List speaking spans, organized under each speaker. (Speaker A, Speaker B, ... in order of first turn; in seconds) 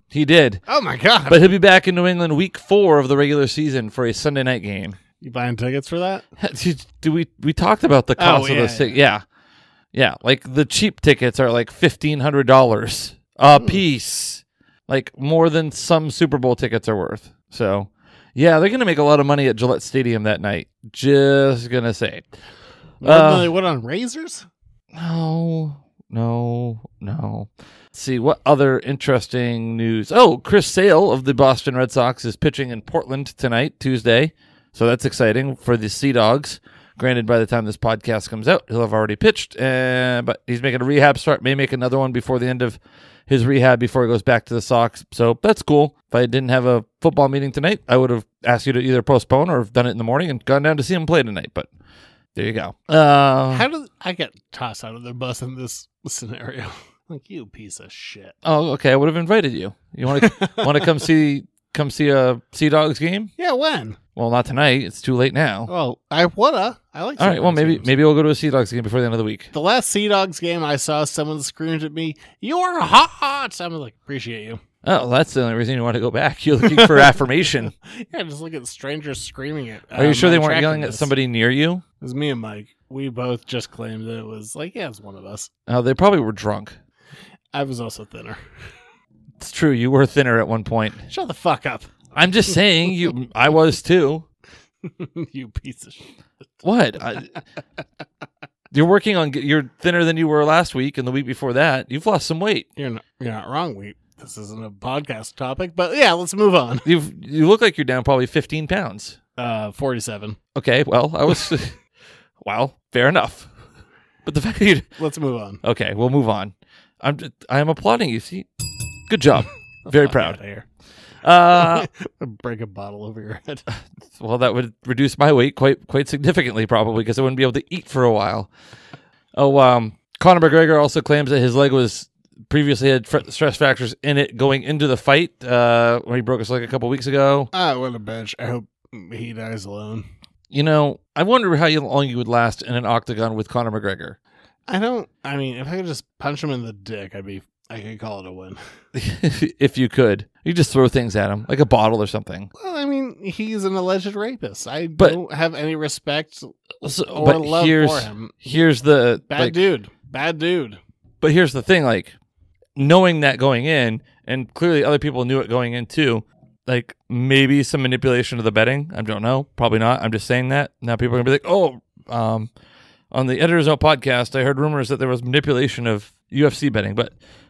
Speaker A: 0.1-0.6, 1.3-5.0, 6.4-9.2, 9.9-22.3, 23.0-23.5, 24.9-51.7, 52.4-53.7, 58.4-63.3, 64.2-65.7, 67.2-69.5, 74.8-77.7, 80.0-81.8, 85.7-86.8, 89.4-91.1, 92.1-94.2, 96.6-97.3, 98.7-102.7, 106.8-109.2, 110.5-111.8, 112.4-113.5, 114.2-114.9, 115.6-118.5, 119.1-120.4, 121.2-121.9, 123.7-128.5, 129.3-137.5, 140.5-144.2, 148.9-152.5, 156.8-159.6, 161.2-162.2, 162.8-172.5, 173.1-177.1
Speaker B: 0.7-1.5, 5.2-6.2, 8.2-9.0, 23.0-24.5, 53.5-58.4, 60.2-60.8, 63.4-64.0, 65.7-67.9, 69.5-74.6, 76.6-77.2, 77.7-81.1, 82.0-85.5, 87.5-88.4, 91.1-91.9, 94.8-96.0, 102.8-106.9, 109.4-110.4, 115.0-115.6, 119.9-120.7, 121.5-123.6, 137.5-140.1, 144.7-148.6, 152.6-156.5, 157.1-158.5, 159.3-160.8